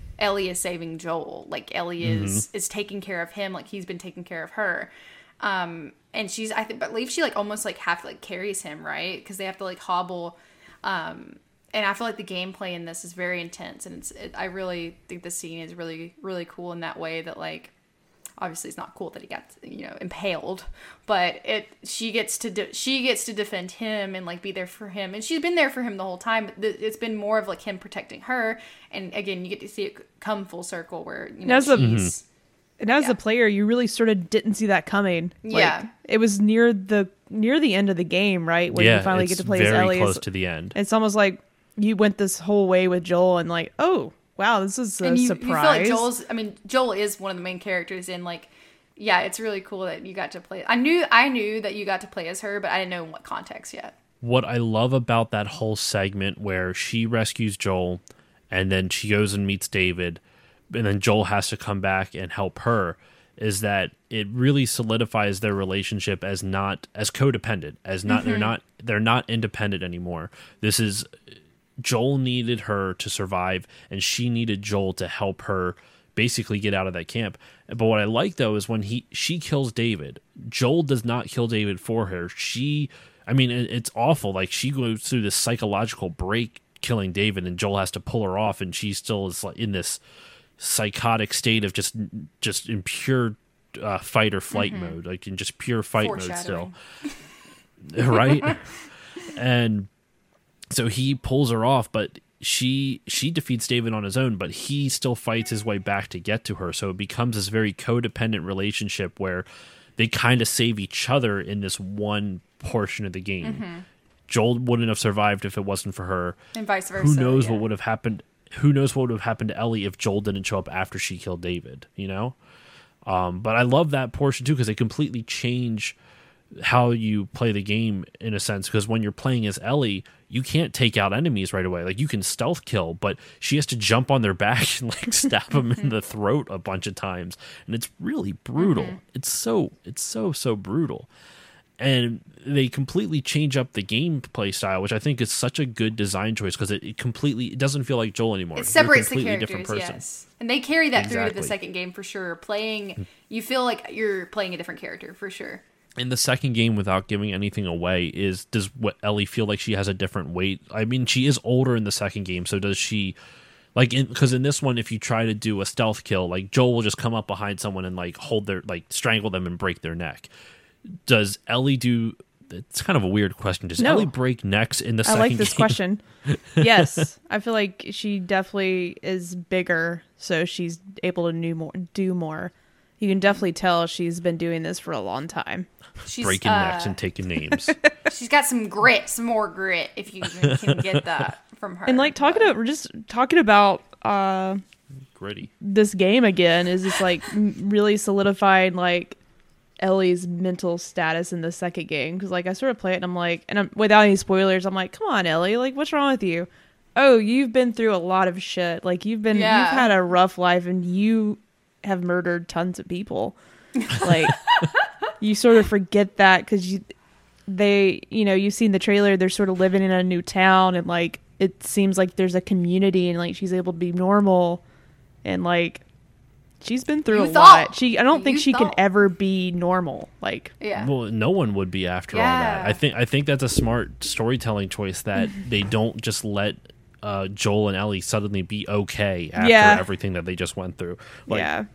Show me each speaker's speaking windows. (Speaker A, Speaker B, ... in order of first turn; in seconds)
Speaker A: 0.2-17.7, 18.4-32.2, 35.4-35.9, 45.0-54.0, 68.1-68.5, 94.5-95.0, 96.0-97.2, 98.1-98.6, 113.4-113.9, 116.5-117.6, 138.6-139.0, 148.6-155.6, 186.1-187.0, 188.1-192.6, 209.3-209.9, 213.8-214.7, 227.1-228.8, 230.6-230.9, 232.1-232.8
Speaker B: 2.0-2.5, 31.8-32.1, 38.7-40.7, 54.2-71.2, 71.8-90.0, 90.6-96.7, 97.8-98.6, 99.2-99.9, 100.7-109.5, 110.0-113.6, 114.3-116.4, 117.0-122.4, 123.0-126.0, 126.5-141.1, 141.8-150.0, 150.9-151.5, 156.0-163.2, 163.8-170.3, 171.1-177.0, 186.2-187.8, 190.4-191.1, 195.1-195.5, 230.7-241.5
Speaker C: 31.4-32.1, 32.8-46.1, 173.8-174.1, 175.1-176.0, 176.6-185.7, 191.9-194.6, 195.6-199.2, 199.8-214.4, 215.2-216.8, 217.5-224.6, 225.2-225.8, 226.6-230.5, 239.4-239.8, 241.3-241.7